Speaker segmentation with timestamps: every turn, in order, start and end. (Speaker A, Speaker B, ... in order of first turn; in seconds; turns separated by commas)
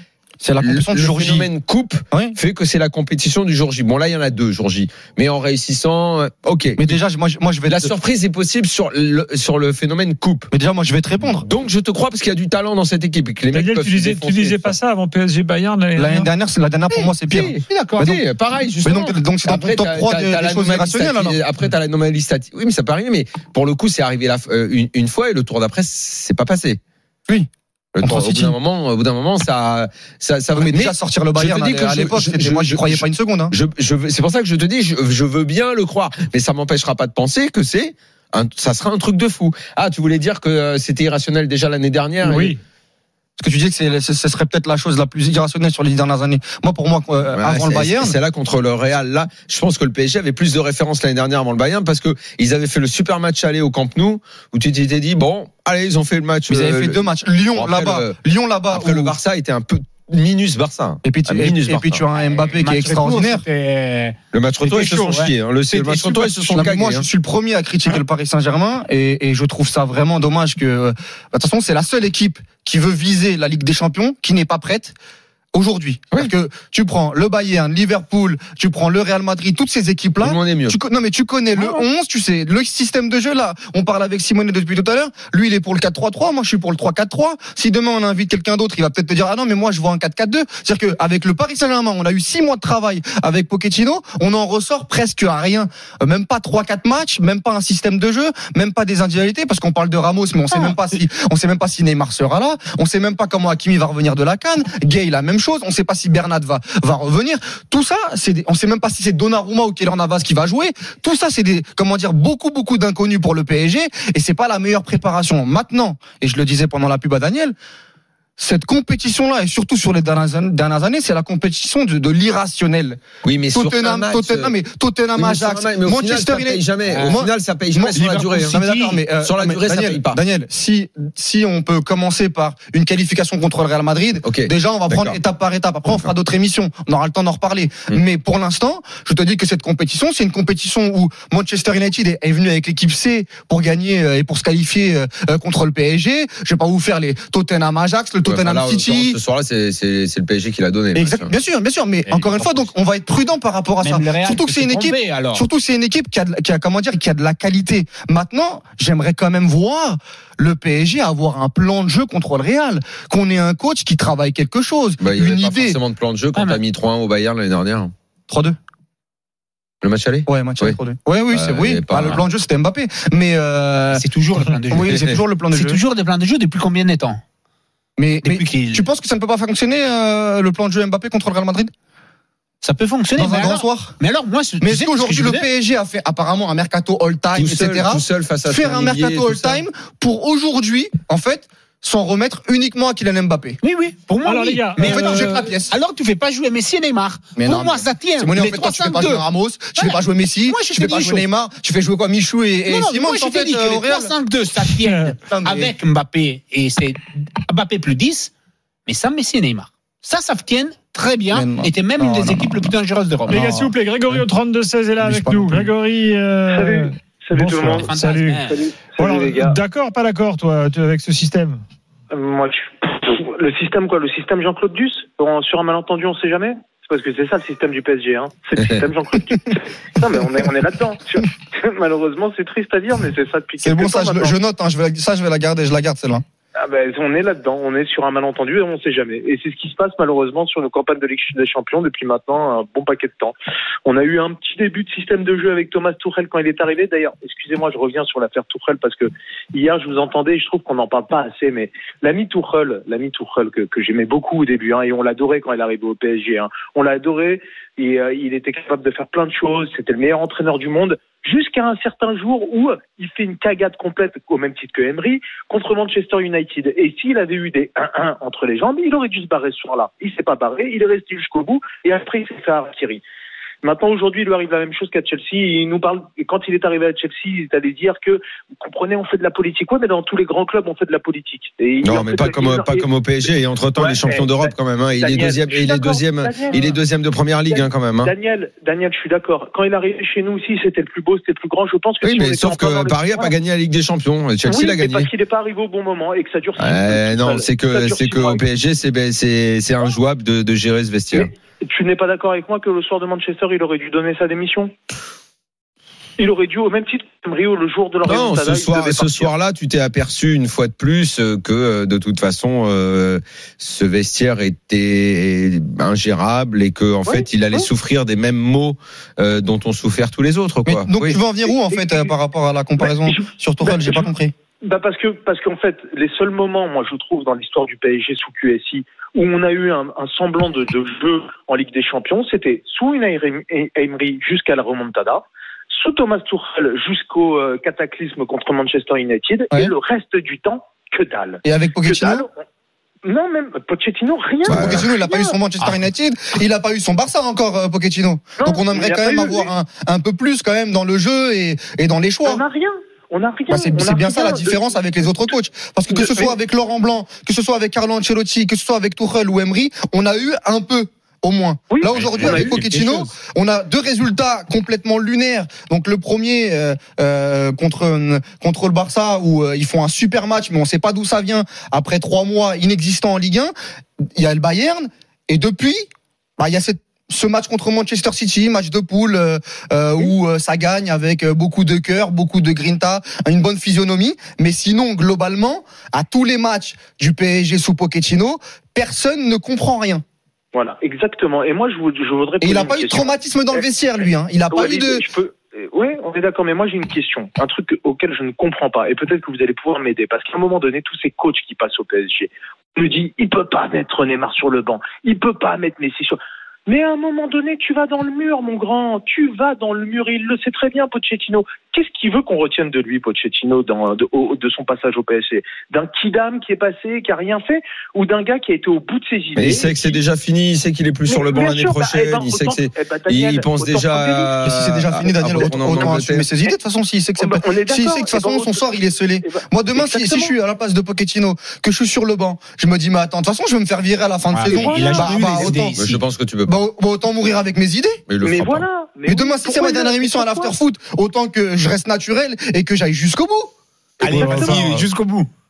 Speaker A: 0.4-1.5, Speaker B: 0.6-7.0, Speaker A: 2.1-2.4, Speaker A: 6.8-7.9, Speaker B: 7.7-10.5, Speaker A: 10.5-11.4, Speaker B: 11.3-14.7, Speaker C: 13.5-16.3, Speaker A: 15.9-18.2, Speaker B: 17.2-26.8, Speaker A: 18.8-21.4, Speaker B: 27.9-42.5, Speaker A: 28.0-28.6, Speaker A: 30.5-33.5, Speaker C: 42.2-42.6, Speaker A: 43.4-48.1, Speaker B: 47.4-57.0, Speaker A: 56.5-59.2, Speaker B: 57.5-58.2, Speaker B: 58.7-62.0, Speaker A: 61.0-63.4, Speaker D: 62.2-66.7, Speaker B: 64.3-67.0, Speaker A: 66.5-75.0, Speaker A: 75.5-117.5, Speaker B: 80.2-80.8, Speaker D: 100.5-100.8, Speaker A: 118.4-149.2, Speaker B: 123.2-124.5, Speaker B: 125.1-128.6, Speaker D: 126.9-127.2, Speaker D: 127.9-129.0, Speaker B: 129.2-130.2, Speaker B: 134.2-135.2, Speaker B: 148.2-151.3, Speaker A: 150.9-165.8, Speaker D: 152.1-152.7, Speaker D: 153.8-155.5, Speaker B: 165.0-167.9, Speaker D: 166.3-166.6, Speaker A: 168.3-168.6, Speaker B: 169.8-170.8, Speaker A: 170.2-174.0, Speaker B: 171.3-172.2, Speaker D: 173.9-177.2, Speaker A: 174.7-175.8, Speaker B: 174.8-175.1, Speaker A: 178.0-181.7, Speaker D: 178.2-178.8, Speaker D: 182.6-185.5, Speaker A: 183.2-183.9, Speaker A: 184.6-193.6, Speaker B: 187.3-189.6, Speaker D: 193.6-199.2, Speaker C: 194.2-195.4, Speaker A: 194.8-195.7, Speaker A: 197.3-204.1, Speaker D: 199.8-201.3, Speaker D: 202.7-208.3, Speaker C: 204.8-205.1, Speaker A: 205.3-205.7, Speaker D: 208.8-213.4, Speaker A: 211.3-212.6, Speaker A: 213.3-214.2, Speaker C: 213.3-221.6, Speaker A: 215.0-215.7, Speaker E: 216.5-217.9, Speaker D: 217.8-218.6, Speaker E: 218.5-219.6, Speaker E: 222.1-234.3, Speaker A: 233.6-236.2, Speaker E: 236.6-243.3, Speaker E: 243.8-273.0, Speaker E: 273.6-286.8, Speaker B: 281.8-288.1, Speaker E: 287.5-293.4, Speaker B: 292.0-295.1, Speaker E: 294.4-298.4, Speaker B: 296.6-301.3, Speaker E: 301.1-304.7, Speaker E: 306.2-309.3, Speaker B: 308.0-321.2, Speaker E: 317.1-317.7, Speaker A: 320.6-324.3, Speaker E: 321.4-322.1, Speaker E: 322.8-324.1, Speaker E: 324.6-342.3, Speaker A: 341.4-342.2, Speaker E: 343.0-345.3, Speaker B: 344.4-344.9, Speaker A: 344.4-352.4, Speaker E: 348.4-349.5, Speaker E: 352.2-354.7, Speaker A: 353.5-373.5, Speaker E: 355.9-356.3, Speaker E: 361.7-362.6, Speaker D: 361.9-363.1, Speaker A: 374.1-375.8, Speaker A: 376.4-390.0, Speaker E: 390.5-420.0, Speaker A: 392.4-395.1, Speaker B: 419.3-426.3, Speaker E: 421.1-424.5, Speaker A: 424.4-435.7, Speaker E: 425.3-426.5, Speaker E: 427.2-428.7, Speaker E: 429.2-430.3, Speaker D: 434.3-436.0, Speaker E: 434.5-435.2, Speaker B: 435.8-436.6, Speaker A: 436.4-438.0, Speaker B: 438.1-438.6, Speaker E: 438.2-440.5, Speaker A: 439.0-443.5, Speaker E: 444.0-444.7, Speaker D: 444.0-445.3, Speaker C: 444.1-444.9